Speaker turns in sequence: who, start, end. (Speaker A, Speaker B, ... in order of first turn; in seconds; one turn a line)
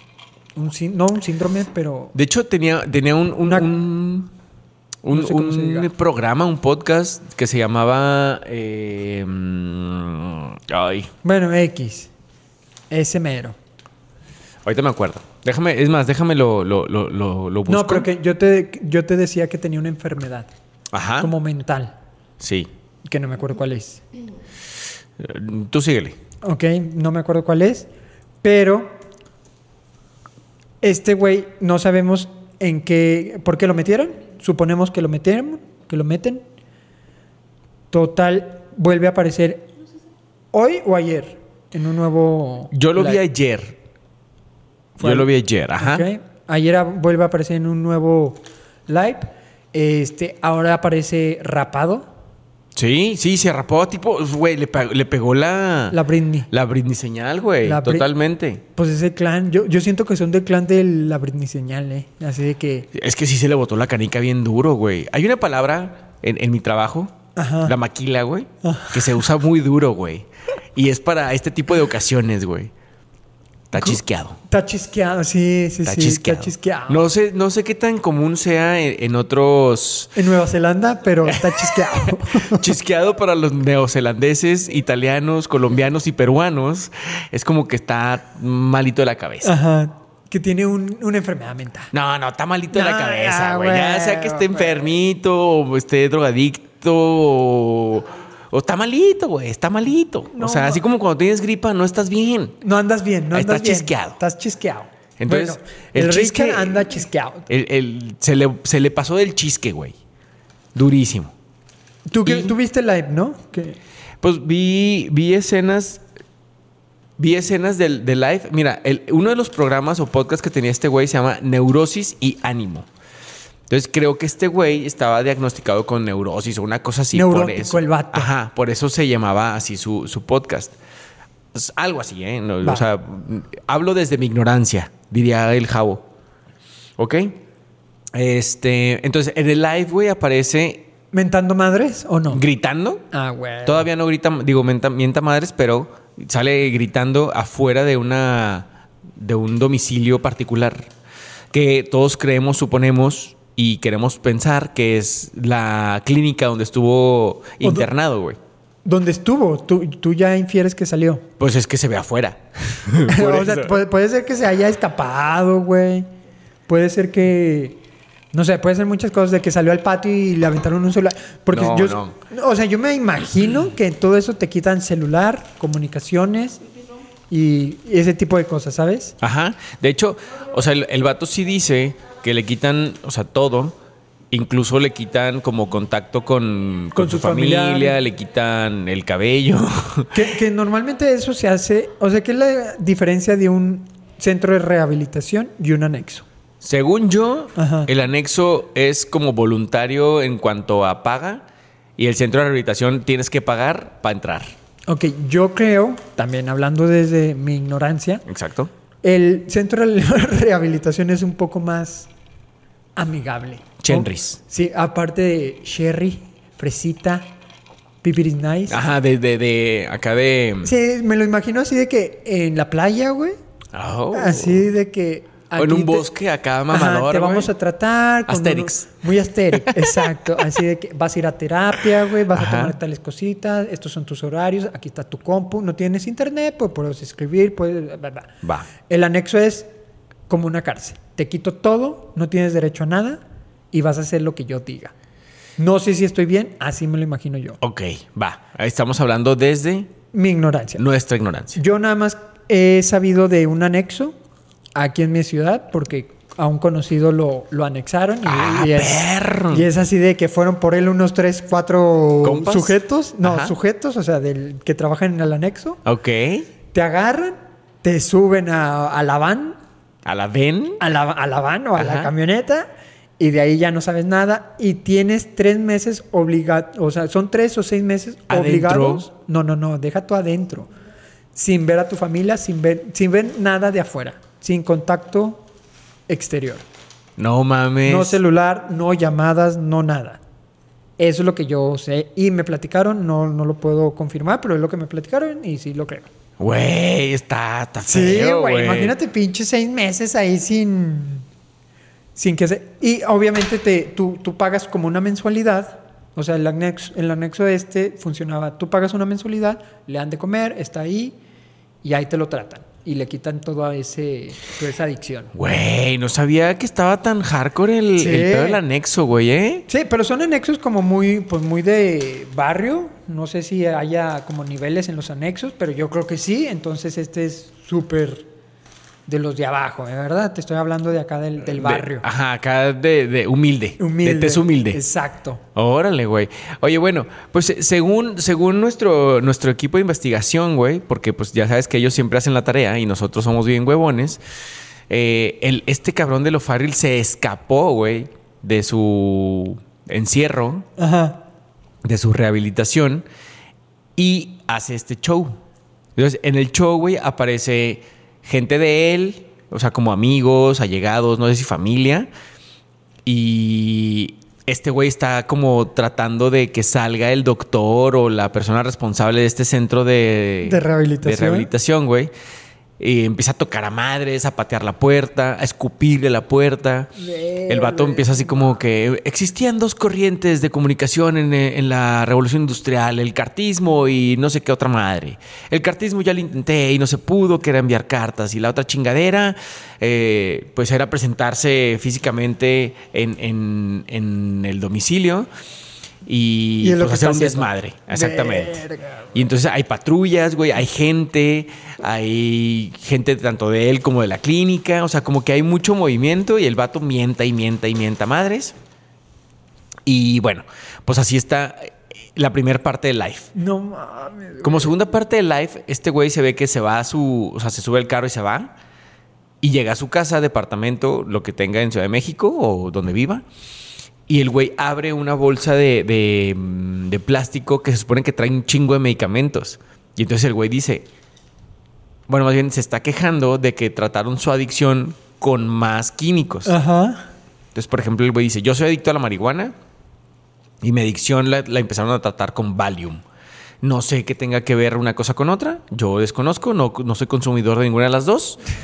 Speaker A: 0.6-2.1
Speaker B: 2.1-4.3
Speaker B: 5.0-11.1
Speaker A: 5.1-5.9
Speaker A: 11.2-12.1
Speaker A: 12.9-13.6
Speaker B: 14.6-18.1
Speaker A: 17.7-20.5
Speaker B: 20.9-21.3
Speaker A: 21.2-21.9
Speaker B: 22.4-22.7
Speaker A: 23.0-24.0
Speaker B: 25.2-26.2
Speaker A: 26.4-27.9
Speaker A: 28.4-28.9
Speaker A: 30.8-36.4
Speaker A: 37.9-39.7
Speaker A: 40.5-43.2
Speaker B: 42.7-43.8
Speaker A: 45.0-52.1
Speaker B: 45.0-46.1
Speaker B: 52.7-56.0
Speaker A: 55.9-56.5
Speaker B: 56.5-58.6
Speaker A: 57.6-58.1
Speaker A: 58.7-62.9
Speaker B: 62.9-72.7
Speaker A: 67.3-67.7
Speaker A: 68.6-69.2
Speaker B: 73.7-74.4
Speaker A: 73.8-77.1
Speaker B: 75.8-80.1
Speaker A: 80.1-82.7
Speaker B: 81.2-89.5
Speaker A: 89.4-91.9
Speaker B: 91.9-102.6
Speaker A: 92.7-94.9
Speaker A: 100.3-100.8
Speaker A: 102.6-107.5
Speaker B: 103.3-104.2
Speaker B: 105.2-110.0
Speaker B: 110.7-111.3
Speaker A: 112.1-113.8
Speaker B: 112.2-112.5
Speaker B: 114.2-116.0
Speaker B: 117.2-122.9
Speaker B: 123.7-130.8
Speaker A: 127.1-128.3
Speaker B: 131.5-136.0
Speaker B: 137.0-137.4
Speaker B: 138.1-140.9
Speaker A: 141.1-142.4
Speaker B: 142.3-143.0
Speaker A: 143.1-143.9
Speaker B: 143.6-150.9
Speaker B: 151.5-158.4
Speaker A: 157.6-157.9
Speaker A: 158.8-161.2
Speaker B: 161.4-163.8
Speaker A: 163.1-166.1
Speaker A: 166.7-167.8
Speaker A: 168.3-176.6
Speaker B: 171.5-172.1
Speaker A: 177.3-179.2
Speaker B: 179.2-183.7
Speaker B: 184.3-190.2
Speaker A: 186.9-188.0
Speaker A: 190.1-196.2
Speaker B: 196.6-201.4
Speaker A: 197.6-197.9
Speaker B: 202.0-204.5
Speaker A: 204.9-208.2
Speaker B: 208.3-208.7
Speaker A: 209.0-212.1
Speaker A: 212.9-217.3
Speaker B: 213.8-214.4
Speaker A: 218.0-218.8
Speaker B: 218.7-220.7
Speaker A: 220.6-223.4
Speaker B: 223.7-224.7
Speaker A: 224.1-226.1
Speaker B: 225.6-227.5
Speaker A: 226.7-239.7
Speaker B: 228.3-230.1
Speaker B: 232.3-232.8
Speaker B: 238.4-238.7
Speaker A: 240.3-244.9
Speaker A: 245.6-247.6
Speaker B: 247.6-249.9
Speaker A: 250.1-250.8
Speaker B: 250.8-251.6
Speaker A: 251.5-254.2
Speaker A: 254.7-265.8
Speaker B: 258.2-259.7
Speaker B: 262.2-263.5
Speaker B: 265.8-266.5
Speaker A: 266.7-269.6
Speaker B: 270.1-270.8
Speaker A: 270.8-280.7
Speaker B: 271.8-272.1
Speaker B: 278.3-279.1
Speaker A: 281.3-285.4
Speaker A: 286.1-286.6
Speaker B: 287.2-288.2
Speaker A: 287.8-290.2
Speaker A: 291.0-296.1
Speaker B: 296.4-298.9
Speaker A: 297.9-301.2
Speaker A: 302.1-311.2
Speaker A: 311.8-315.3
Speaker B: 315.3-319.7
Speaker A: 317.9-318.6
Speaker A: 319.7-328.3
Speaker A: 329.1-332.1
Speaker B: 331.5-334.8
Speaker A: 333.8-335.4
Speaker B: 335.5-344.2
Speaker B: 344.9-350.7
Speaker A: 350.8-351.2
Speaker B: 351.8-353.1
Speaker B: 353.9-355.4
Speaker B: 355.9-362.1
Speaker B: 363.1-372.1
Speaker A: 370.4-371.5
Speaker B: 372.8-376.9
Speaker A: 377.0-378.6
Speaker B: 377.5-395.3
Speaker B: 396.1-398.6
Speaker A: 396.6-399.2
Speaker B: 399.1-408.5
Speaker B: 409.9-413.3
Speaker A: 413.3-414.7
Speaker B: 414.4-418.5
Speaker B: 419.4-423.2
Speaker B: 424.1-430.9
Speaker B: 432.1-436.5
Speaker A: 436.4-437.1
Speaker B: 437.5-439.5
Speaker B: 440.6-443.0
Speaker B: 443.6-448.4